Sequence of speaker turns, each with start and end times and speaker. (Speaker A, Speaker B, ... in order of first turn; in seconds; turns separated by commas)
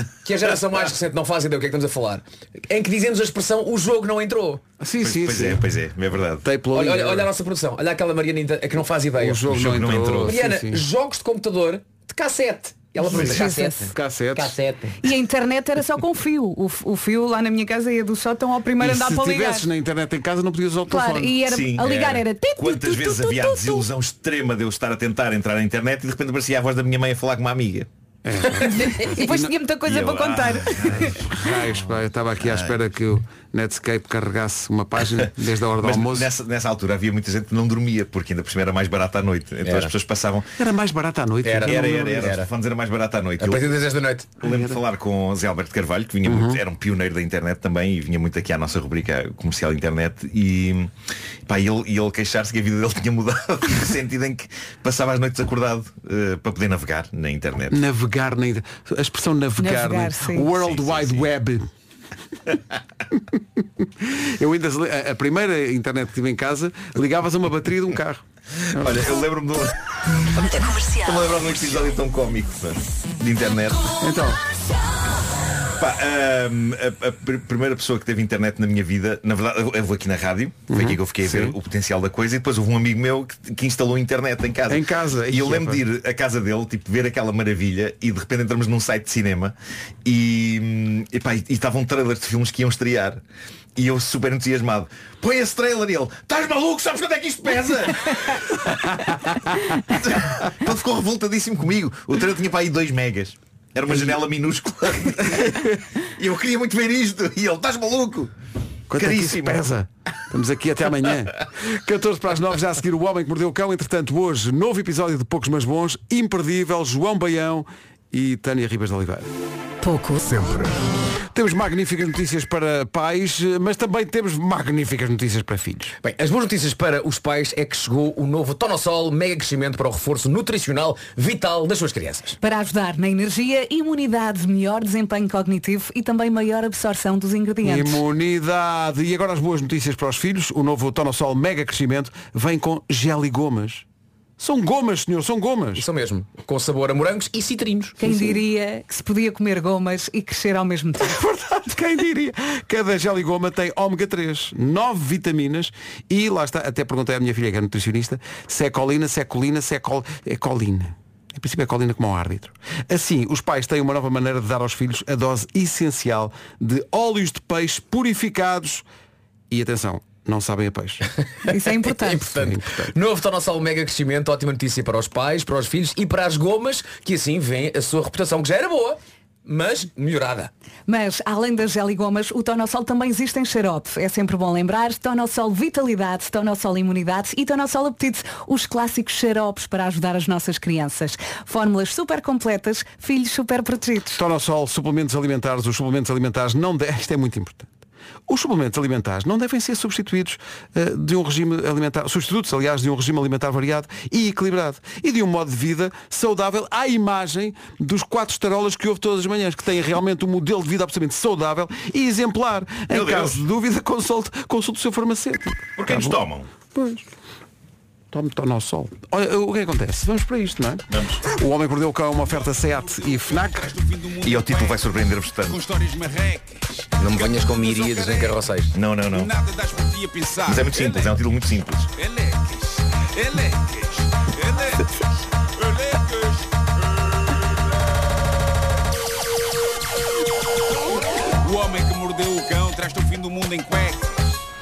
Speaker A: 0.2-4.6, Speaker B: 4.8-5.7, Speaker C: 5.0-6.5, Speaker B: 6.4-7.3, Speaker A: 6.7-9.5, Speaker B: 9.2-10.8, Speaker C: 9.5-10.4, Speaker A: 10.2-15.0, Speaker D: 13.0-13.9, Speaker B: 13.1-14.6, Speaker D: 15.0-19.7, Speaker B: 18.8-21.4, Speaker D: 20.9-23.9, Speaker C: 21.4-27.9, Speaker B: 28.2-29.5, Speaker D: 28.6-31.2, Speaker C: 29.8-32.8, Speaker B: 31.3-36.3, Speaker C: 35.8-40.5, Speaker A: 39.6-39.9, Speaker B: 40.6-42.3, Speaker A: 41.4-42.5, Speaker C: 41.7-43.8, Speaker A: 43.4-44.4, Speaker C: 44.4-50.9, Speaker B: 44.4-44.8, Speaker B: 46.3-46.6, Speaker C: 51.5-57.8, Speaker B: 57.7-61.7, Speaker D: 59.6-60.5, Speaker C: 60.6-61.3, Speaker B: 63.8-69.0, Speaker C: 68.7-69.8, Speaker C: 70.3-73.9, Speaker B: 74.0-74.4, Speaker C: 75.8-93.2, Speaker B: 80.7-81.6, Speaker B: 84.7-85.8, Speaker C: 93.8-98.4, Speaker C: 99.9-108.3, Speaker B: 108.9-119.3, Speaker C: 108.9-109.6, Speaker B: 121.3-125.9, Speaker A: 126.0-132.4, Speaker D: 132.4-138.0, Speaker B: 137.6-143.8, Speaker B: 144.4-145.8, Speaker A: 145.8-148.0, Speaker D: 148.0-151.2, Speaker B: 151.0-168.8, Speaker B: 169.5-171.1, Speaker D: 171.5-172.3, Speaker A: 171.8-180.5, Speaker B: 172.1-172.9, Speaker D: 180.9-194.2, Speaker B: 194.2-197.7, Speaker B: 198.3-216.2, Speaker C: 212.9-213.4, Speaker C: 215.8-216.5, Speaker B: 216.7-217.1, Speaker B: 218.1-223.8, Speaker C: 220.9-221.2, Speaker E: 222.5-224.9, Speaker C: 224.2-225.6, Speaker E: 225.5-228.4, Speaker A: 227.0-228.8, Speaker C: 228.7-229.3, Speaker E: 229.1-231.2, Speaker C: 230.4-231.9, Speaker E: 232.0-234.8, Speaker E: 235.6-236.5, Speaker E: 241.4-244.3